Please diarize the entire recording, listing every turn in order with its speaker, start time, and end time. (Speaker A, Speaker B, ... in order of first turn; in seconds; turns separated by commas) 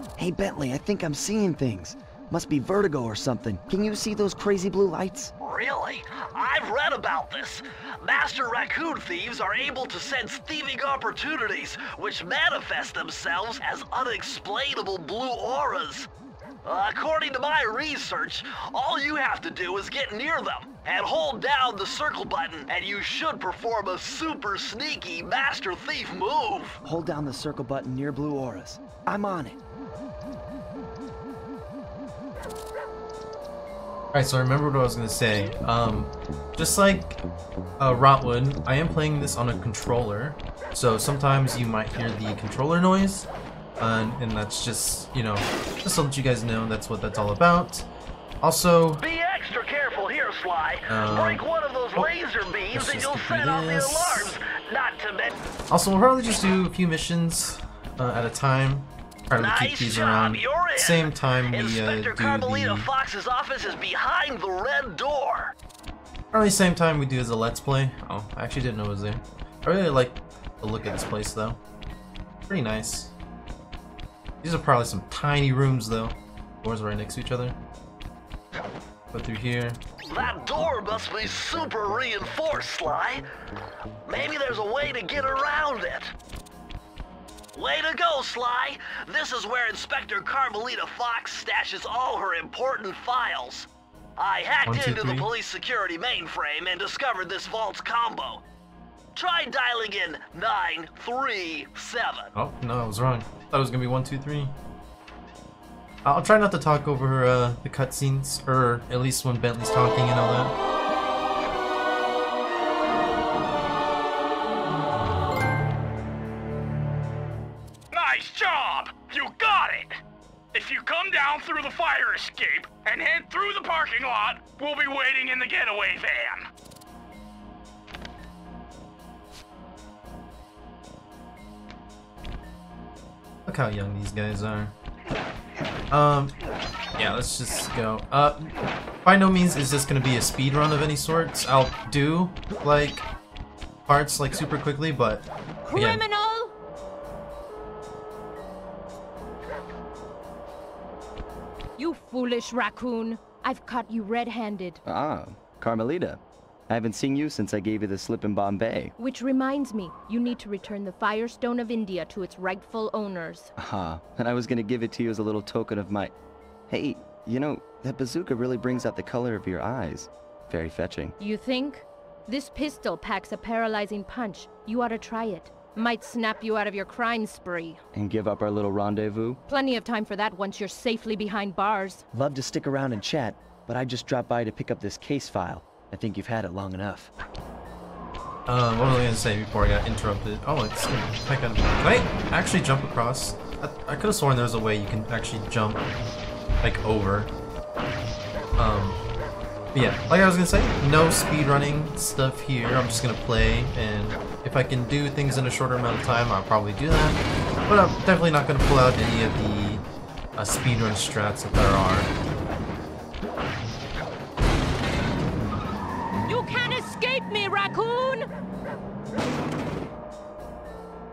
Speaker A: 0.2-5.3, Speaker B: 5.4-16.1, Speaker B: 16.6-26.8, Speaker A: 26.8-29.6, Speaker C: 34.1-37.2, Speaker C: 37.8-43.3, Speaker C: 43.8-47.9, Speaker C: 48.4-49.0, Speaker B: 49.0-55.3, Speaker C: 50.9-51.4, Speaker C: 52.7-54.4, Speaker C: 55.7-62.9, Speaker B: 59.4-65.5, Speaker C: 66.3-71.6, Speaker C: 72.5-73.1, Speaker C: 74.4-77.6, Speaker C: 79.1-79.8, Speaker B: 80.1-83.2, Speaker B: 84.1-86.1, Speaker B: 87.5-98.4, Speaker C: 94.7-95.3, Speaker B: 99.1-102.3, Speaker C: 102.3-104.5, Speaker C: 106.0-110.5, Speaker D: 117.9-120.0, Speaker D: 120.5-126.5, Speaker C: 133.4-134.7, Speaker C: 135.9-136.3, Speaker C: 137.0-143.1, Speaker C: 143.9-146.0, Speaker E: 145.7-146.5, Speaker E: 151.8-154.8, Speaker A: 154.8-158.9, Speaker E: 159.0-163.5, Speaker A: 163.6-166.1, Speaker A: 166.7-171.2, Speaker E: 171.2-177.8, Speaker A: 177.9-179.4, Speaker E: 179.5-182.0, Speaker A: 182.1-187.1, Speaker C: 188.5-195.9, Speaker C: 196.6-197.3, Speaker C: 198.6-199.0, Speaker C: 199.7-209.8, Speaker C: 210.3-212.1, Speaker E: 216.3-218.3